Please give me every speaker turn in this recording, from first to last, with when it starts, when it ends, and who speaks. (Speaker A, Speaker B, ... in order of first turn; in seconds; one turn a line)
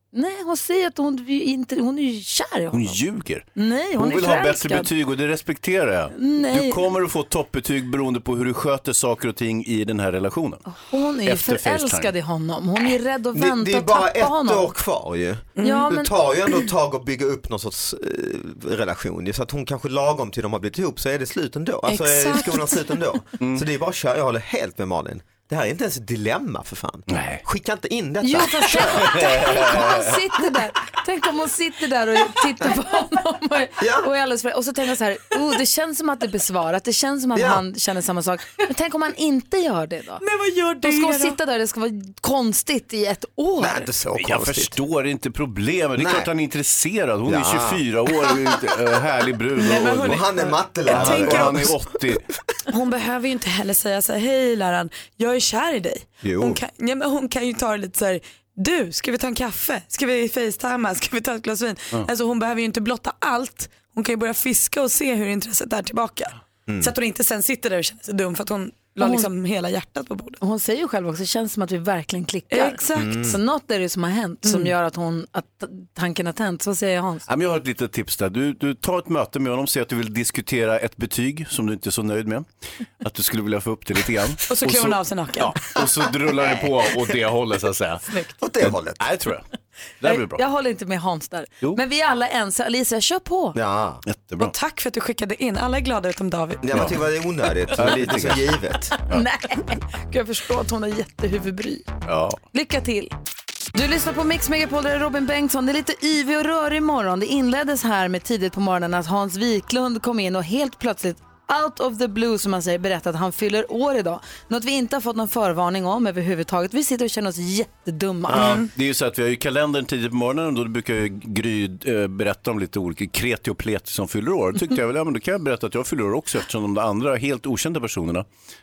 Speaker A: 0.1-3.0
Speaker B: 2.7-10.6
Speaker A: 3.5-4.9
Speaker A: 6.1-6.8
Speaker A: 10.7-14.7
Speaker B: 11.2-12.1
Speaker C: 13.3-29.2
Speaker D: 15.6-15.9
Speaker A: 15.6-16.1
Speaker D: 21.9-22.8
Speaker B: 23.4-23.6
Speaker B: 27.1-27.4
Speaker A: 28.2-40.2
Speaker B: 28.9-30.1
Speaker C: 33.8-34.1
Speaker C: 37.3-37.6
Speaker D: 40.2-41.4
Speaker A: 40.8-43.9
Speaker C: 43.6-44.7
Speaker B: 44.1-50.3
Speaker C: 46.0-46.3
Speaker C: 47.2-47.8
Speaker D: 49.6-51.7
Speaker C: 50.0-52.0
Speaker B: 50.8-52.2
Speaker D: 52.7-70.4
Speaker C: 56.2-56.6
Speaker C: 66.7-66.9
Speaker A: 69.0-69.3
Speaker A: 70.4-77.2
Speaker D: 72.5-73.3
Speaker C: 72.9-73.4
Speaker D: 74.4-74.7
Speaker B: 77.3-82.5
Speaker B: 83.0-88.0
Speaker D: 84.5-85.6
Speaker C: 88.4-89.0
Speaker B: 88.6-89.5
Speaker B: 90.0-90.4
Speaker A: 90.1-93.6
Speaker C: 93.5-94.0
Speaker B: 94.0-94.5
Speaker D: 94.4-96.6
Speaker C: 96.6-98.9
Speaker B: 96.7-97.0
Speaker B: 97.7-98.5
Speaker A: 99.0-101.9
Speaker B: 102.0-102.4
Speaker A: 102.5-103.1
Speaker A: 103.7-118.6
Speaker C: 118.3-118.7
Speaker D: 118.3-118.7
Speaker B: 118.7-128.3